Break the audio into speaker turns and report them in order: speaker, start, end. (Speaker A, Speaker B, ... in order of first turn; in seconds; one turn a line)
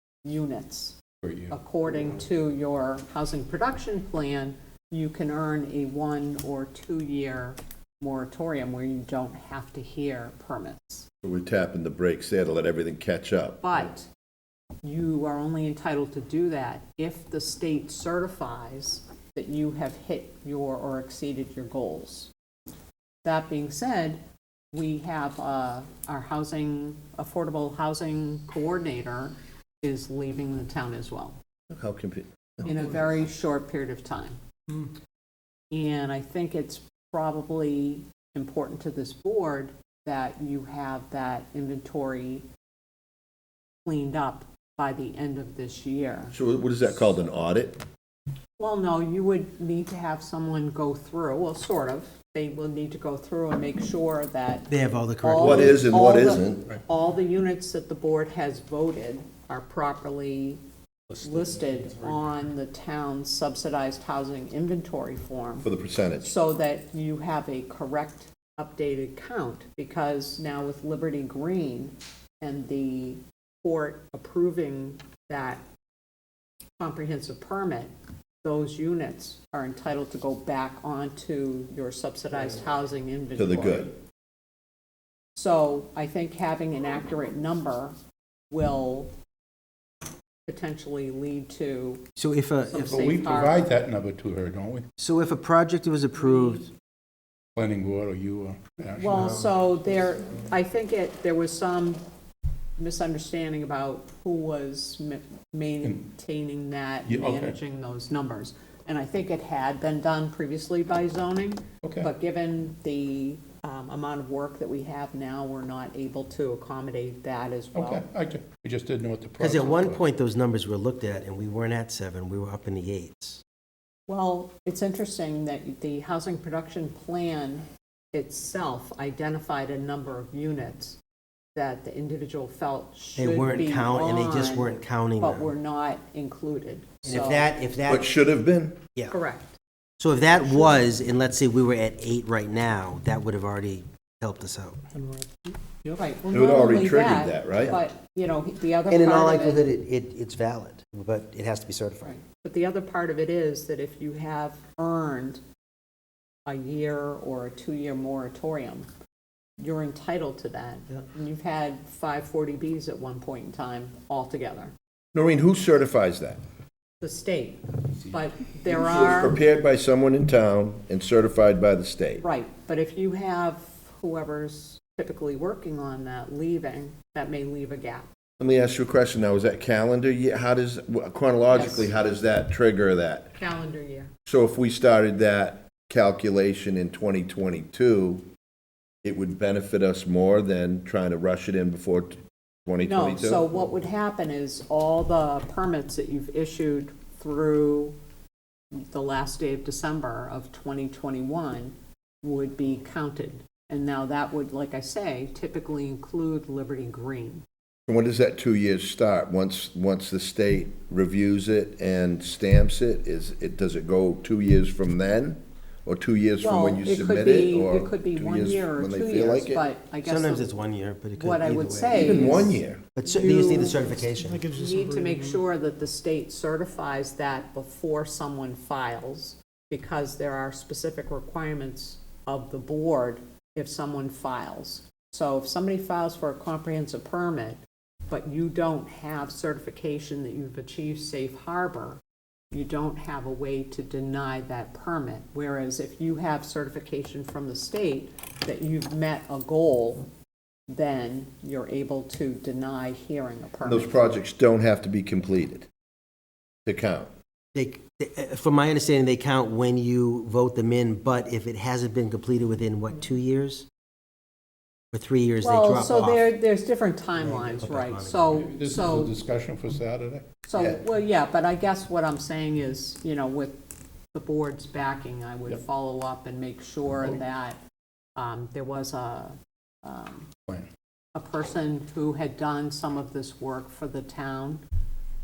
Speaker A: 0.2-1.0
Speaker B: 1.2-1.5
Speaker A: 1.5-11.1
Speaker C: 11.2-13.9
Speaker A: 13.6-14.1
Speaker A: 14.8-22.3
Speaker A: 23.2-24.2
Speaker A: 24.7-31.4
Speaker C: 31.7-33.1
Speaker A: 32.6-34.8
Speaker A: 35.7-42.4
Speaker A: 43.8-46.3
Speaker C: 46.3-47.8
Speaker A: 48.6-60.6
Speaker D: 54.7-56.3
Speaker C: 55.4-56.7
Speaker B: 61.1-62.2
Speaker A: 61.2-65.7
Speaker C: 65.6-66.3
Speaker A: 66.2-75.6
Speaker A: 76.8-77.9
Speaker A: 78.4-83.9
Speaker C: 83.3-83.9
Speaker A: 85.3-87.9
Speaker A: 88.5-89.1
Speaker A: 90.5-92.0
Speaker D: 92.2-93.0
Speaker A: 92.7-93.7
Speaker B: 92.8-94.9
Speaker D: 95.0-96.7
Speaker B: 97.5-99.5
Speaker A: 99.0-102.0
Speaker A: 102.8-118.0
Speaker B: 107.0-107.6
Speaker B: 111.8-112.1
Speaker B: 117.7-120.0
Speaker D: 119.4-123.4
Speaker A: 124.1-131.0
Speaker A: 131.5-137.5
Speaker D: 133.2-135.5
Speaker D: 137.0-138.1
Speaker C: 137.9-138.8
Speaker A: 139.1-139.6
Speaker D: 140.0-144.8
Speaker A: 145.9-149.7
Speaker C: 146.3-147.8
Speaker D: 148.9-152.1
Speaker A: 152.0-155.4
Speaker A: 156.4-158.9
Speaker A: 159.6-164.7
Speaker C: 165.1-166.4
Speaker A: 167.0-169.4
Speaker C: 168.7-172.2
Speaker A: 172.2-178.1
Speaker C: 178.4-183.3
Speaker A: 181.5-181.9
Speaker A: 183.3-184.1
Speaker C: 184.2-188.2
Speaker C: 189.0-193.5
Speaker A: 192.8-197.9
Speaker A: 198.8-207.4
Speaker C: 207.9-219.7
Speaker A: 216.4-242.0
Speaker D: 220.0-224.5
Speaker C: 221.9-222.8
Speaker B: 224.1-225.2
Speaker A: 242.5-250.1
Speaker A: 250.7-254.1
Speaker C: 253.6-255.7
Speaker C: 256.6-257.1
Speaker D: 257.5-263.6
Speaker D: 264.9-266.3
Speaker A: 265.4-269.1
Speaker D: 267.1-268.5
Speaker B: 268.3-270.3
Speaker A: 270.4-277.6
Speaker A: 278.1-280.3
Speaker A: 281.1-284.6